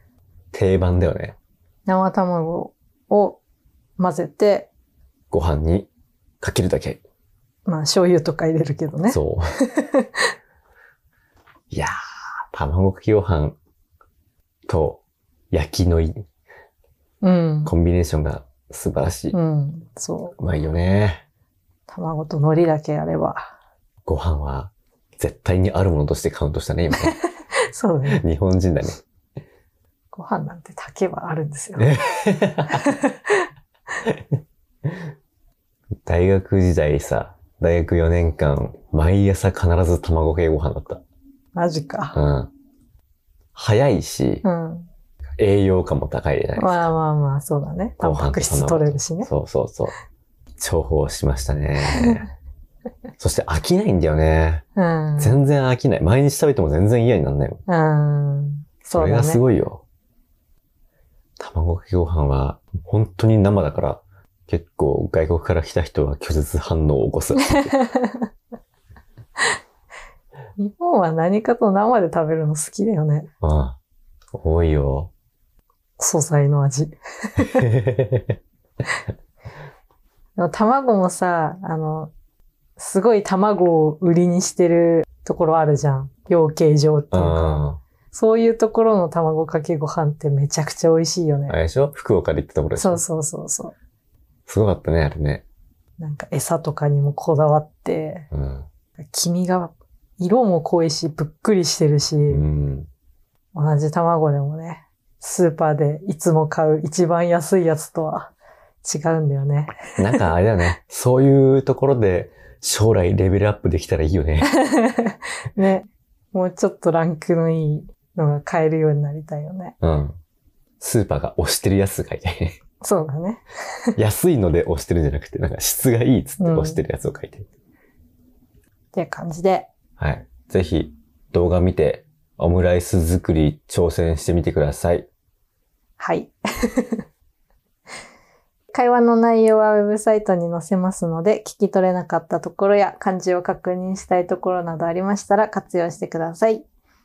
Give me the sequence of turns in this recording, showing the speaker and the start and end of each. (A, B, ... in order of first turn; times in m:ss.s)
0:00.5-0:01.4 A
0:01.8-0:03.4 B
0:04.0-0:04.7 B
0:05.3-0:05.9 A
0:06.4-0:07.0 A
0:07.6-0:10.1 B
0:09.1-0:09.6 A
0:12.5-0:13.6 A
0:14.7-0:16.2 A
0:17.2-0:17.7 B
0:17.6-0:19.4 A
0:19.3-0:20.4 B
0:20.4-0:21.2 A
0:21.9-0:23.5 B
0:24.0-0:27.2 A
0:27.0-0:28.2 B
0:28.1-0:29.0 A
0:30.1-0:31.9 B
0:31.8-0:32.8 A
0:32.7-0:33.4 B
0:36.0-0:41.0 A
0:41.5-0:42.2 B
0:42.1-0:42.5 A
0:43.5-0:44.4 A
0:44.4-0:44.9 B
0:45.4-0:46.9 A
0:46.6-0:49.3 B
0:48.0-0:49.9 A
0:50.6-0:52.3 A
0:51.9-0:52.2 B
0:53.2-0:54.6 A
0:54.8-0:55.4 B
0:55.2-0:57.6 A
0:57.7-0:59.4 B
0:58.9-0:59.8 A
1:01.4-1:07.8 A
1:07.4-1:08.3 B
1:10.6-1:13.3 B
1:13.4-1:13.8 A
1:14.3-1:15.1 A
1:16.0-1:17.7 B
1:17.6-1:18.4 A
1:20.4-1:22.1 B
1:22.8-1:31.6 B
1:27.1-1:27.8 A
1:31.5-1:33.0 A
1:32.8-1:33.7 B
1:34.5-1:35.4 A
1:36.0-1:38.3 B
1:38.3-1:38.7 A
1:39.1-1:42.4 B
1:42.3-1:42.9 A
1:43.5-1:50.2 B
1:50.0-1:54.5 A
1:54.5-1:59.7 B
1:59.8-2:00.2 A
2:00.8-2:02.6 A
2:02.8-2:03.9 B
2:04.0-2:07.5 A
2:06.4-2:06.8 B
2:08.9-2:09.7 B
2:10.0-2:15.1 A
2:16.0-2:17.0 B
2:18.7-2:26.6 B